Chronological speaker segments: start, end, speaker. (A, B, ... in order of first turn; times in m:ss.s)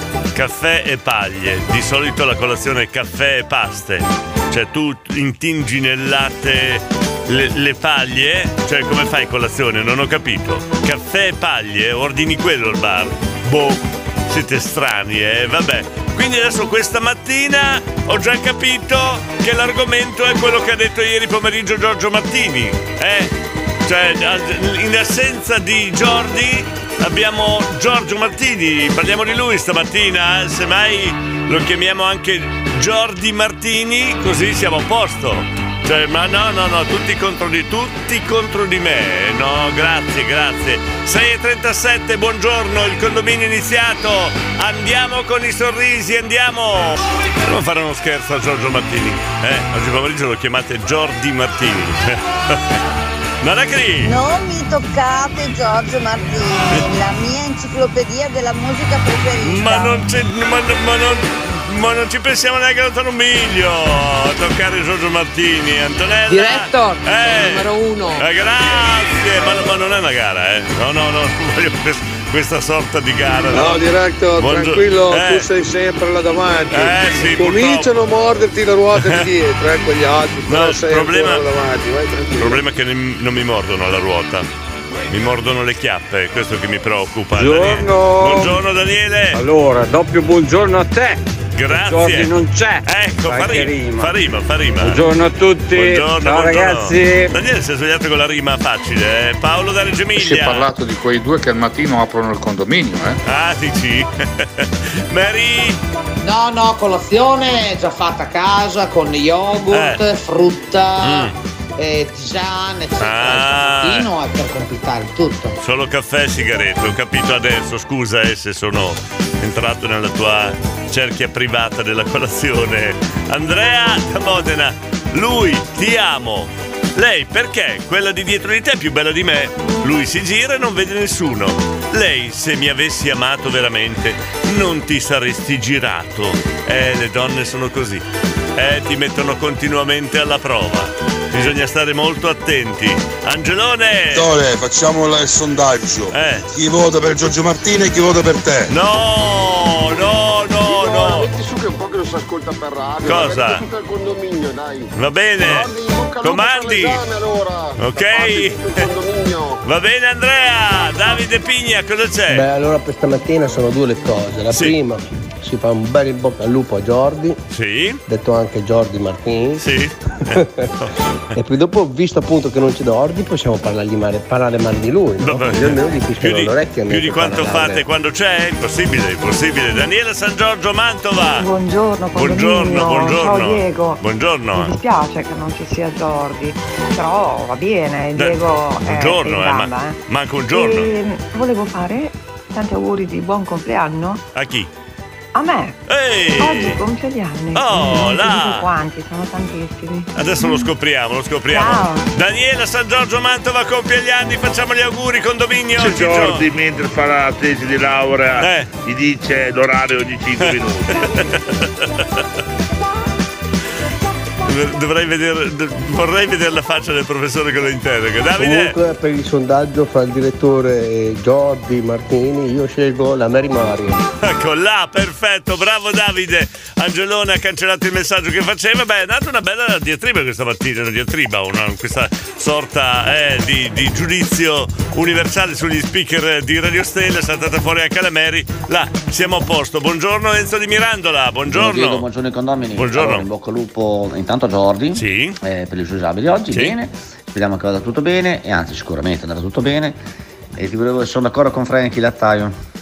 0:00.3-0:23.3 A
0:23.8-0:52.8 A
0:53.4-0:54.1 A
0:54.0-1:00.0 B
0:59.4-1:13.8 A
1:06.3-1:08.2 C
1:13.5-1:22.6 D
1:14.4-1:15.5 A
1:16.7-1:18.0 A
1:19.0-1:19.3 A
1:20.4-1:21.4 A
1:22.4-1:24.5 A
1:25.1-1:29.4 A
1:27.3-1:28.5 C
1:29.3-1:34.1 C
1:31.6-1:35.0 A
1:34.8-1:37.3 C
1:35.7-1:40.7 A
1:40.6-1:42.9 E
1:43.2-1:45.8 A
1:46.2-1:55.6 F
1:49.7-1:50.0 A
1:51.0-1:51.3 A
1:53.0-1:54.1 A
1:55.6-2:18.0 A
2:18.6-2:24.3 A
2:24.1-2:28.7 G
2:26.1-2:26.5 A
2:28.7-2:31.3 A
2:30.6-2:39.6 H
2:33.0-2:33.6 A
2:34.9-2:37.0 A
2:37.8-2:38.9 A
2:39.6-2:42.4 A
2:42.3-2:47.4 I
2:44.5-2:44.8 A
2:47.5-2:48.0 A
2:48.1-2:49.6 I
2:49.6-2:50.9 A
2:50.3-2:50.7 I
2:51.3-2:57.8 I
2:55.2-3:01.5 A
3:01.4-3:04.0 J
3:02.1-3:04.7 A
3:04.5-3:10.0 J
3:08.1-3:10.9 A
3:10.5-3:14.2 J
3:14.3-3:14.7 A
3:15.3-3:15.8 J
3:15.9-3:16.8 A
3:16.4-3:20.7 J
3:17.5-3:18.7 A
3:20.1-3:26.4 A
3:21.5-3:22.1 J
3:25.8-3:31.1 K
3:28.4-3:28.7 A
3:30.4-3:32.0 A
3:34.4-3:38.7 A
3:38.4-3:44.0 I
3:44.2-4:02.0 A
4:01.5-4:04.9 L
4:02.8-4:03.2 A
4:04.9-4:05.4 A
4:05.4-4:09.9 L
4:06.5-4:06.8 A
4:10.6-4:12.5 L